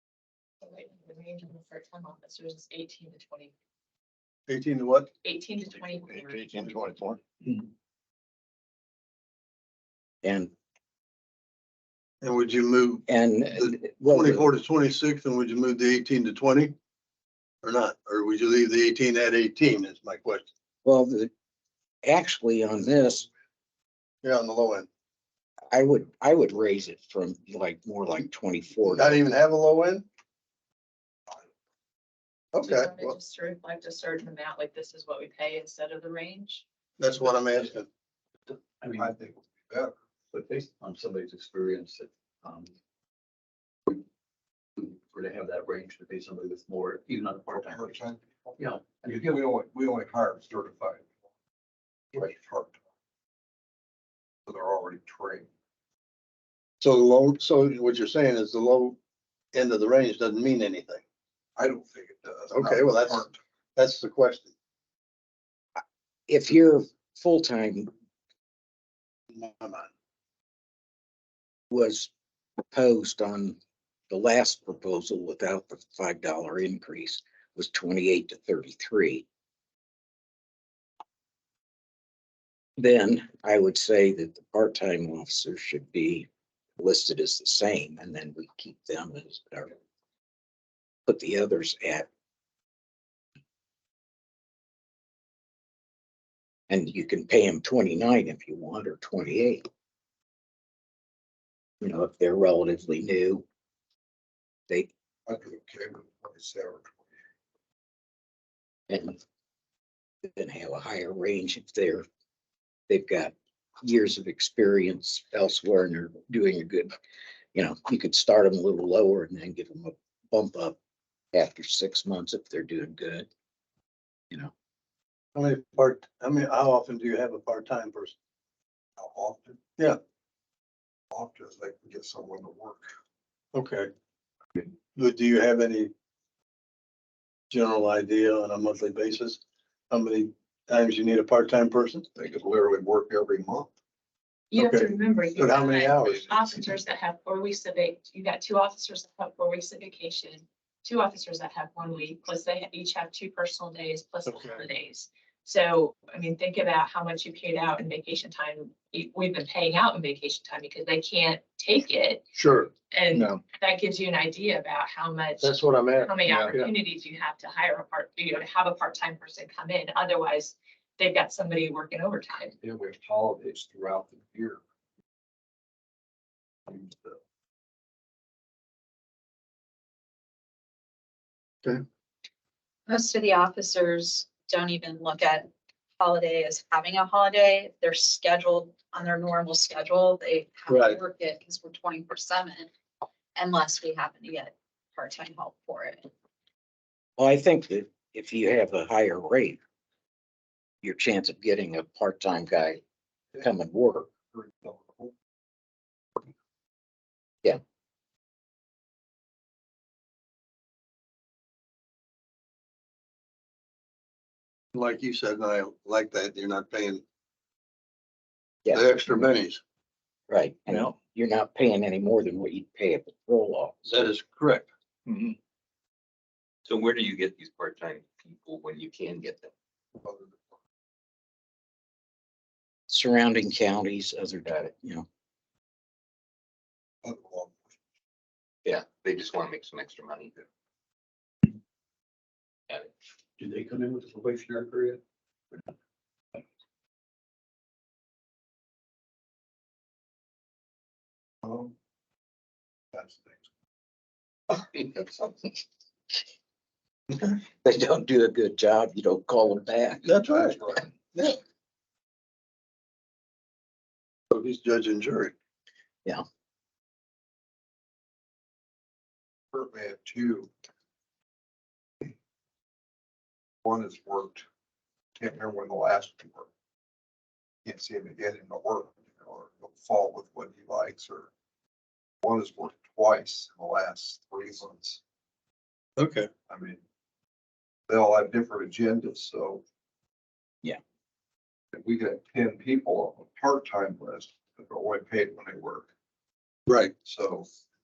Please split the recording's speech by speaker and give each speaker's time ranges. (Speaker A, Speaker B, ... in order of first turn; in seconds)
Speaker A: 0.6-3.5, 5.2-6.4, 32.6-36.6, 144.5-162.3, 162.9-172.6
Speaker B: 4.5-5.1, 6.6-6.9, 12.2-16.8, 17.6-20.5, 24.2-24.9, 28.9-30.1, 32.5-33.2, 37.0-37.9, 56.8-59.0, 59.5-61.0, 62.5-64.5, 69.3-69.9, 125.3-128.2, 133.5-133.9, 134.9-135.9, 137.5-142.1, 144.6-146.3, 154.3-154.7, 162.3-162.7, 165.4-166.7, 190.7-191.0, 214.7-217.0, 218.7-219.6, 223.8-224.7, 260.1-260.6, 264.3-265.3, 286.0-286.3, 296.7-296.9
Speaker C: 6.3-7.2, 38.5-39.1, 40.3-42.7, 44.8-47.9, 48.6-49.3, 243.4-245.0
Speaker D: 10.2-10.5, 13.1-14.5, 20.9-21.3, 22.0-23.3, 25.7-29.2, 66.3-67.9, 71.7-72.1, 72.7-73.6, 74.1-79.2, 82.8-86.3, 86.8-89.7, 91.1-92.1, 96.7-99.6, 101.8-103.5, 108.9-109.2, 110.3-112.1, 112.9-116.9, 117.5-120.8, 121.3-123.3, 197.2-199.6, 200.8-202.8, 203.4-204.1, 218.7-218.9, 220.3-223.8, 232.9-235.1, 257.6-260.1
Speaker E: 38.9-40.0, 47.4-51.1, 52.1-52.8, 54.5-55.5, 61.6-63.4, 105.3-107.0, 129.0-129.7, 131.1-132.9, 142.2-143.7, 146.0-146.6, 166.2-166.6, 172.6-174.6, 176.7-177.2, 204.3-205.1, 230.0-230.4, 237.0-237.7, 251.4-251.7, 252.9-253.4, 254.8-255.2, 260.1-260.9, 269.5-270.5, 273.6-274.4, 275.2-276.5, 277.6-281.3, 282.2-285.0, 286.4-286.8, 287.9-289.6, 291.7-295.9, 297.0-297.5
Speaker F: 182.9-192.7, 193.4-196.1
Speaker G: 225.1-225.4, 226.7-229.5, 238.7-240.4